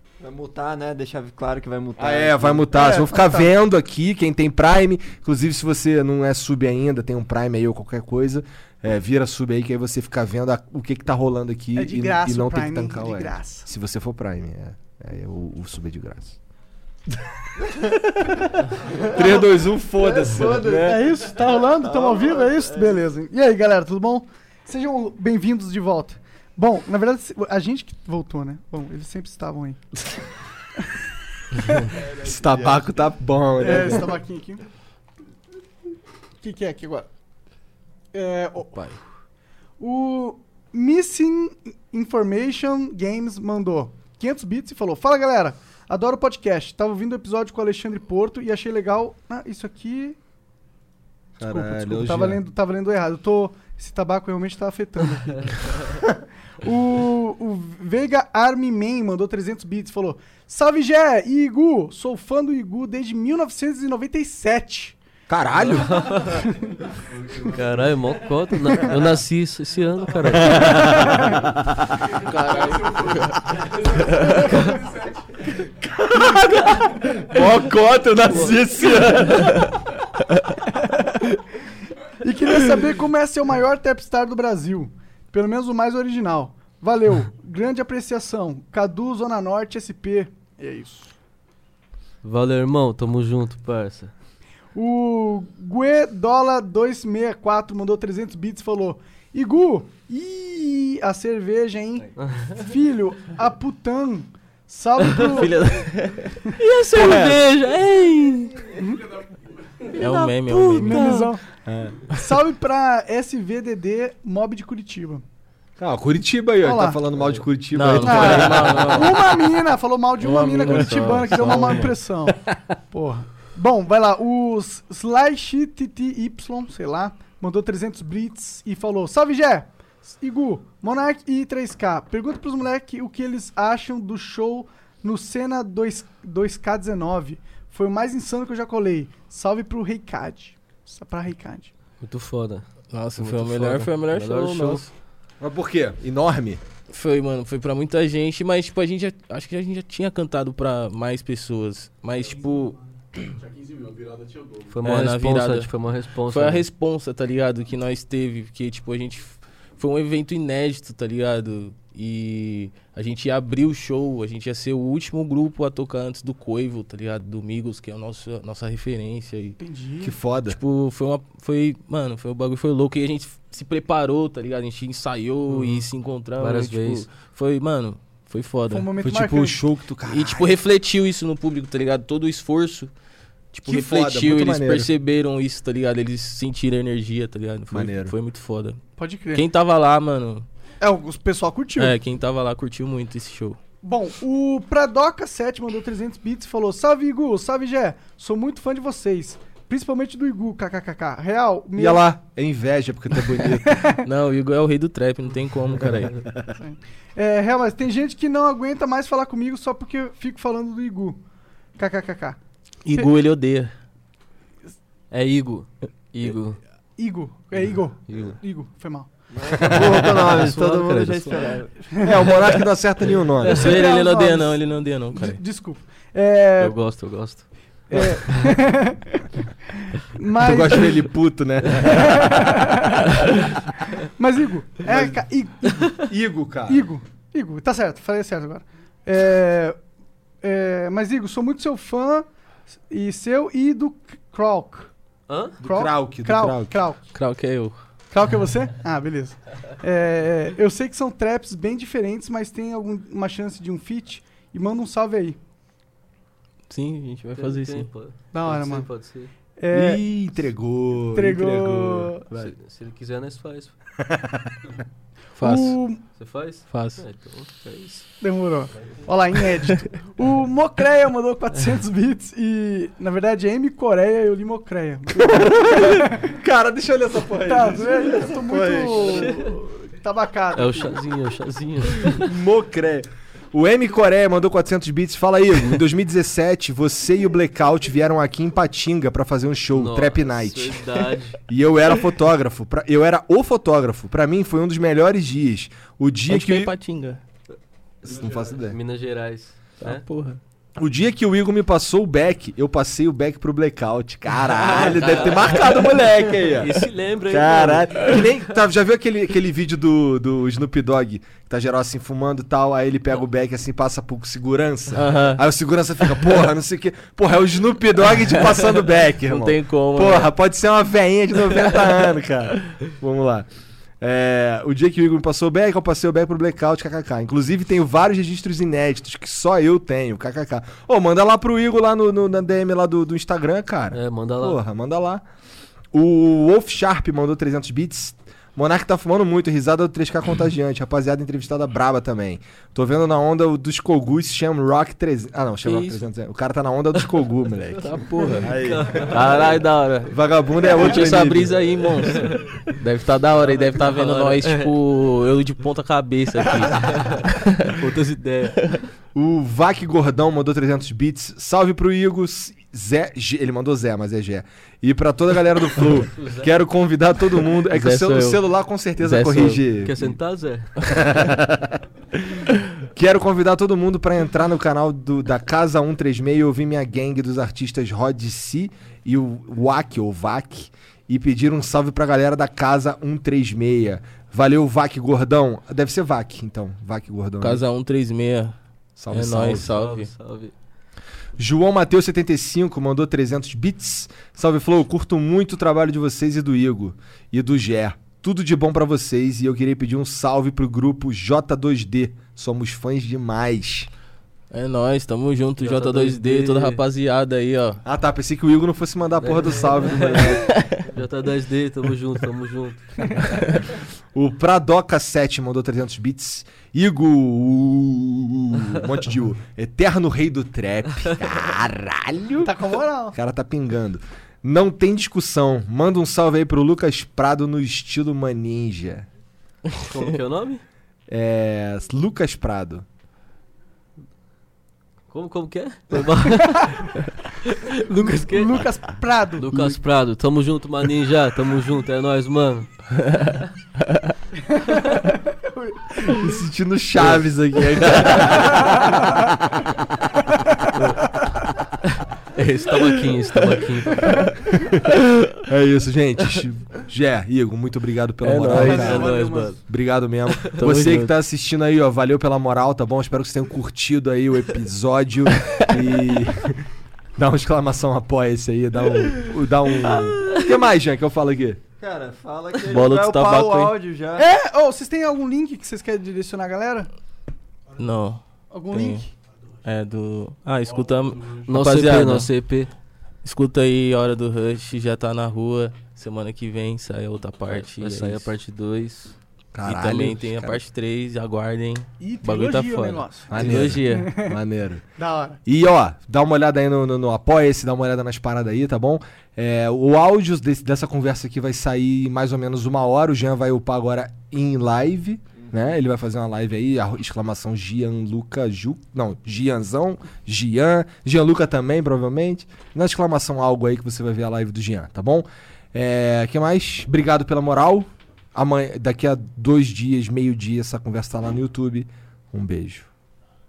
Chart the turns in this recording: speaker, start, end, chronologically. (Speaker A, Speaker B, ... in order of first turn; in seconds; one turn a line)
Speaker A: 0.2-2.7
Speaker B: 2.0-16.4
Speaker C: 2.7-3.5
Speaker C: 11.8-13.7
Speaker B: 17.8-21.0
Speaker A: 18.9-22.9
Speaker C: 20.4-29.8
Speaker C: 31.5-32.0
Speaker B: 32.2-34.2
Speaker A: 32.3-32.8
Speaker C: 33.6-34.6
Speaker C: 36.4-37.1
Speaker C: 38.1-38.8
Speaker D: 38.7-39.0
Speaker C: 39.8-50.2
Speaker B: 51.4-52.4
Speaker C: 51.4-56.1
Speaker C: 56.6-65.0
Speaker B: 65.3-66.3
Speaker E: 65.6-66.5
Speaker F: 66.9-68.3
Speaker E: 67.5-71.2
Speaker B: 70.3-71.5
Speaker F: 71.9-75.6
Speaker D: 72.1-74.6
Speaker B: 76.0-79.8
Speaker E: 78.2-79.6
Speaker C: 80.8-81.2
Speaker C: 82.2-91.2
Speaker E: 92.2-94.1
Speaker C: 94.8-105.6
Speaker E: 102.2-102.6
Speaker D: 105.1-106.5
Speaker E: 106.6-108.7
Speaker B: 106.9-107.4
Speaker C: 108.8-109.1
Speaker E: 109.9-111.3
Speaker D: 109.9-111.3
Speaker C: 110.8-111.5
Speaker B: 111.7-112.1
Speaker C: 112.1-115.2
Speaker B: 115.8-118.9
Speaker C: 116.6-117.0
Speaker D: 117.8-119.5
Speaker C: 118.0-141.7
Speaker D: 120.2-122.0
Speaker B: 121.3-121.7
Speaker E: 142.0-142.7
Speaker D: 142.9-144.9
Speaker E: 143.2-144.8
Speaker B: 145.4-146.6
Speaker D: 146.9-152.8
Speaker F: 153.3-154.8
Speaker E: 154.7-156.7
Speaker D: 154.8-155.7
Speaker D: 156.3-169.6
Speaker C: 169.6-170.2
Speaker B: 170.0-170.6
Speaker D: 170.5-178.9
Speaker E: 175.5-175.8
Speaker E: 176.4-177.1
Speaker C: 178.7-179.6
Speaker B: 179.0-180.6
Speaker D: 180.1-182.9
Speaker D: 183.5-188.8
Speaker B: 183.7-184.9
Speaker B: 187.7-188.2
Speaker C: 189.0-189.4
Speaker D: 189.3-190.4
Speaker C: 190.8-191.9
Speaker D: 191.8-193.6
Speaker C: 193.8-202.0
Speaker B: 201.8-203.9
Speaker C: 203.4-204.0
Speaker D: 204.0-206.3
Speaker B: 205.8-206.5
Speaker C: 206.6-211.2
Speaker C: 211.8-212.4
Speaker D: 212.8-213.7
Speaker E: 215.1-216.6
Speaker C: 217.0-219.1
Speaker E: 218.1-218.3
Speaker A: 219.3-221.7
Speaker B: 219.6-220.6
Speaker E: 219.7-221.7
Speaker B: 222.0-223.8
Speaker C: 222.0-222.3
Speaker C: 223.4-224.6
Speaker D: 223.4-225.4
Speaker C: 225.1-226.8
Speaker E: 226.6-227.5
Speaker C: 227.9-231.0
Speaker B: 230.4-232.8
Speaker C: 231.7-236.1
Speaker B: 234.8-236.9
Speaker C: 236.7-239.8
Speaker C: 240.4-242.3
Speaker C: 242.9-244.9
Speaker E: 245.3-245.6
Speaker B: 245.6-246.8
Speaker C: 245.6-247.0
Speaker D: 247.1-247.8
Speaker C: 248.1-255.4
Speaker D: 256.7-257.9
Speaker E: 257.3-259.3
Speaker C: 258.3-258.9
Speaker C: 259.6-260.0
Speaker B: 259.7-262.5
Speaker C: 261.1-262.3
Speaker E: 262.3-263.8
Speaker B: 264.0-264.7
Speaker D: 265.4-265.8
Speaker C: 265.4-266.0
Speaker E: 266.2-268.1
Speaker D: 266.7-267.0
Speaker C: 268.2-276.3
Speaker B: 275.2-279.4
Speaker C: 277.4-281.0
Speaker E: 279.0-279.6
Speaker E: 280.5-282.3
Speaker B: 282.1-290.8
Speaker E: 289.7-291.4
Speaker B: 291.5-296.7
Speaker D: 296.3-297.2
Speaker B: 298.0-298.8
Speaker E: 298.1-300.0
Speaker D: 299.8-300.4
Speaker B: 300.8-323.5
Speaker E: 304.6-308.3
Speaker D: 314.9-315.4
Speaker D: 318.2-320.3
Speaker B: 324.0-335.2
Speaker E: 333.9-334.6
Speaker B: 335.9-347.9
Speaker D: 345.6-346.0
Speaker D: 347.8-348.5
Speaker E: 348.1-350.1
Speaker A: 348.4-349.3
Speaker D: 349.1-349.9
Speaker B: 350.1-351.7
Speaker D: 350.7-357.9
Speaker E: 352.1-352.7
Speaker E: 353.4-354.8
Speaker E: 356.5-358.6
Speaker D: 358.6-358.8
Speaker B: 359.1-370.2
Speaker E: 366.1-366.5
Speaker D: 367.7-368.4
Speaker D: 369.0-369.7
Speaker E: 369.8-370.7
Speaker B: 370.8-387.6
Speaker D: 387.4-388.6
Speaker B: 389.0-389.7
Speaker D: 389.1-390.1
Speaker E: 389.5-390.5
Speaker B: 391.4-403.9
Speaker D: 404.5-407.8
Speaker E: 405.6-406.8
Speaker B: 407.9-410.6
Speaker E: 409.2-413.2
Speaker D: 410.3-410.8
Speaker B: 414.1-422.6
Speaker C: 422.4-423.2
Speaker B: 423.1-429.1
Speaker E: 429.7-430.6
Speaker B: 431.1-432.9
Speaker E: 435.1-438.8
Speaker C: 438.0-439.7
Speaker E: 439.4-442.7
Speaker D: 443.0-444.1
Speaker C: 444.5-446.4
Speaker B: 446.0-448.9
Speaker D: 447.9-448.5
Speaker C: 448.5-449.2
Speaker E: 451.8-454.3
Speaker B: 454.5-459.1
Speaker D: 458.2-459.1
Speaker E: 458.5-459.6
Speaker C: 458.5-459.6
Speaker B: 459.7-466.6
Speaker D: 460.6-461.1
Speaker B: 467.2-471.6
Speaker A: 471.8-474.3
Speaker D: 472.7-473.7
Speaker C: 474.2-476.9
Speaker D: 477.8-479.1
Speaker C: 478.5-479.1
Speaker D: 479.6-482.3
Speaker F: 480.7-481.6
Speaker E: 481.5-482.7
Speaker D: 483.2-488.3
Speaker E: 487.4-489.1
Speaker B: 489.5-490.6
Speaker D: 489.6-493.6
Speaker C: 492.0-494.4
Speaker B: 493.3-494.8
Speaker E: 493.3-494.1
Speaker C: 495.0-495.4
Speaker B: 495.5-522.9